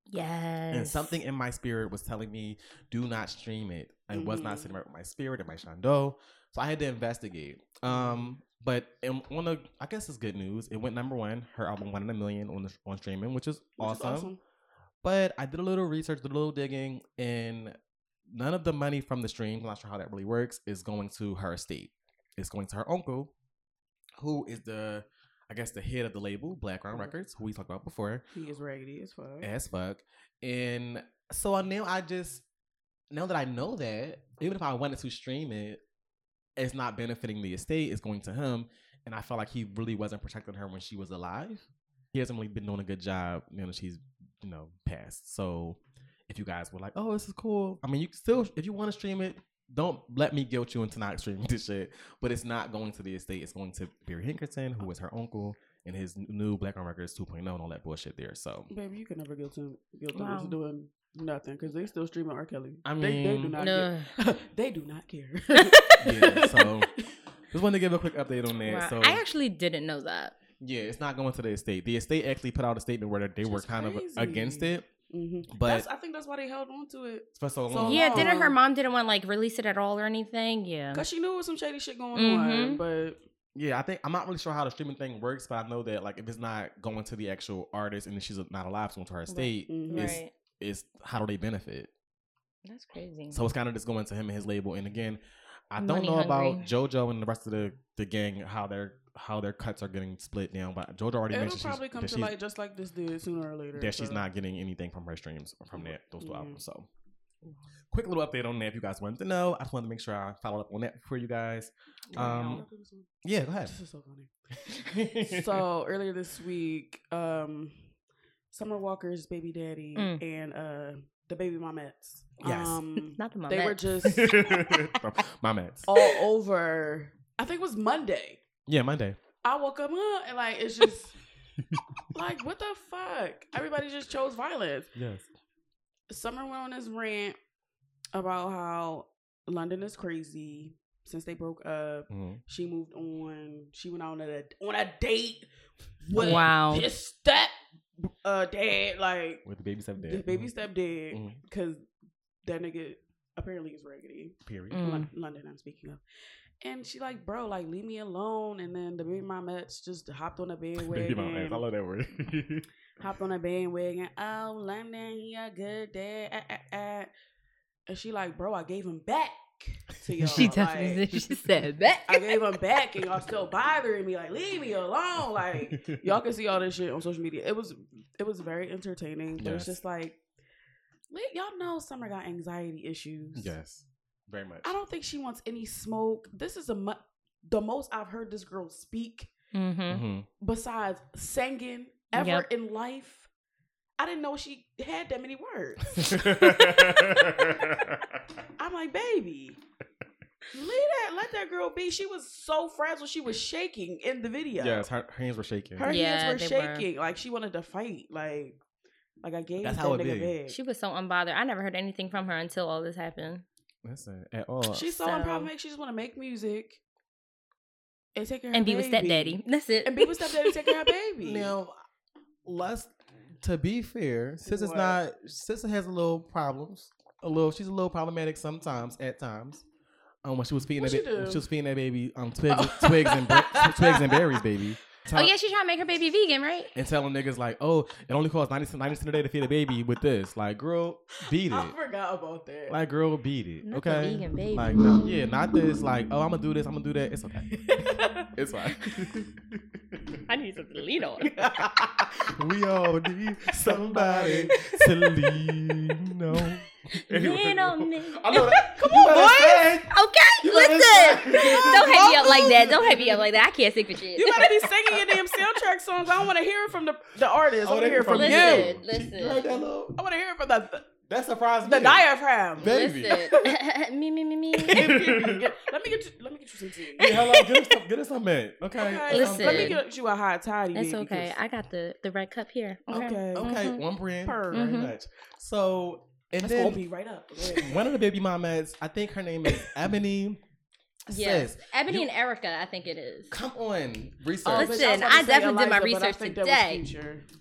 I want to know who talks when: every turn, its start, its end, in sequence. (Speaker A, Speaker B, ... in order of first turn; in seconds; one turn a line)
Speaker A: 0.1-1.1
Speaker B: 0.7-14.3
Speaker C: 4.1-4.7
Speaker C: 7.9-8.4
Speaker C: 13.8-14.4
Speaker B: 15.0-23.3
Speaker B: 24.2-28.3
Speaker C: 28.3-29.5
Speaker B: 29.4-32.4
Speaker B: 33.1-35.8
Speaker B: 36.6-58.7
Speaker C: 58.7-67.1
Speaker A: 60.1-60.6
Speaker B: 62.9-63.6
Speaker A: 63.6-64.1
Speaker A: 65.6-65.9
Speaker B: 66.0-66.9
Speaker B: 67.5-69.2
Speaker A: 68.7-70.4
Speaker B: 70.6-74.9
Speaker C: 73.4-78.6
Speaker B: 75.5-75.9
Speaker B: 77.4-78.3
Speaker A: 77.8-81.1
Speaker C: 80.9-83.2
Speaker A: 82.2-82.8
Speaker B: 83.5-91.9
Speaker A: 89.3-90.3
Speaker C: 89.7-90.2
Speaker A: 92.7-93.4
Speaker B: 93.3-102.3
Speaker A: 95.8-96.7
Speaker C: 101.3-104.3
Speaker B: 103.8-106.9
Speaker C: 105.8-106.6
Speaker B: 107.9-112.7
Speaker A: 112.1-112.6
Speaker C: 112.1-113.1
Speaker B: 113.2-113.7
Speaker C: 113.6-114.3
Speaker B: 114.7-115.6
Speaker C: 115.2-117.9
Speaker C: 118.5-124.8
Speaker B: 122.4-122.8
Speaker A: 123.2-123.8
Speaker B: 124.0-126.0
Speaker C: 125.9-128.4
Speaker B: 128.7-129.2
Speaker C: 129.4-131.2
Speaker C: 132.1-134.9
Speaker B: 134.9-135.3
Speaker C: 136.1-137.4
Speaker C: 138.1-145.5
Speaker B: 142.1-142.4
Speaker C: 146.0-149.4
Speaker A: 146.2-146.9
Speaker B: 149.4-150.5
Speaker C: 150.0-151.9
Speaker B: 151.1-151.4
Speaker C: 152.4-156.0
Speaker B: 154.4-154.8
Speaker A: 154.7-155.1
Speaker C: 156.6-161.6
Speaker B: 160.8-162.7
Speaker C: 163.0-167.1
Speaker C: 167.9-171.1
Speaker B: 170.1-170.4
Speaker A: 170.4-172.4
Speaker B: 171.1-171.4
Speaker C: 172.1-180.2
Speaker B: 175.7-176.0
Speaker B: 179.4-179.8
Speaker C: 181.1-183.5
Speaker B: 183.3-184.7
Speaker C: 184.6-189.3
Speaker A: 189.5-190.1
Speaker B: 189.9-190.3
Speaker C: 190.4-193.3
Speaker A: 192.2-192.5
Speaker C: 194.0-197.8
Speaker B: 196.0-198.2
Speaker C: 198.6-199.6
Speaker C: 200.5-204.9
Speaker B: 204.6-205.9
Speaker C: 205.8-208.6
Speaker A: 205.9-206.9
Speaker C: 209.2-210.6
Speaker B: 209.6-210.3
Speaker A: 210.5-213.4
Speaker B: 213.8-214.9
Speaker C: 214.7-216.8
Speaker A: 215.0-215.5
Speaker C: 218.2-221.5
Speaker A: 218.5-220.7
Speaker B: 221.2-221.8
Speaker B: 222.4-229.7
Speaker C: 224.4-225.0
Speaker B: 230.2-235.3
Speaker C: 230.8-231.4
Speaker C: 232.5-234.4
Speaker A: 235.1-236.7
Speaker B: 236.8-241.8
Speaker C: 241.4-242.8
Speaker B: 242.7-247.6
Speaker A: 243.7-245.0
Speaker C: 247.5-248.3
Speaker B: 248.3-249.3
Speaker A: 250.3-251.3
Speaker C: 251.2-252.2
Speaker B: 251.6-262.7
Speaker C: 253.7-254.7
Speaker A: 257.0-259.2
Speaker C: 258.7-259.6
Speaker A: 259.9-264.5
Speaker C: 261.3-263.2
Speaker C: 264.1-268.7
Speaker B: 267.6-270.0
Speaker A: 268.1-269.5
Speaker C: 270.0-270.9
Speaker B: 271.1-273.3
Speaker C: 271.6-272.7
Speaker A: 272.6-274.9
Speaker B: 274.6-275.5
Speaker C: 274.7-277.2
Speaker B: 276.9-279.8
Speaker C: 278.8-281.4
Speaker A: 279.1-279.8
Speaker A: 280.8-283.8
Speaker C: 282.9-283.5
Speaker B: 283.4-286.8
Speaker C: 284.2-284.6
Speaker A: 284.5-284.9
Speaker C: 286.4-287.7
Speaker B: 287.5-290.4
Speaker B: 291.1-292.1
Speaker A: 291.1-293.4
Speaker B: 293.3-294.9
Speaker C: 294.4-297.3
Speaker A: 294.5-296.8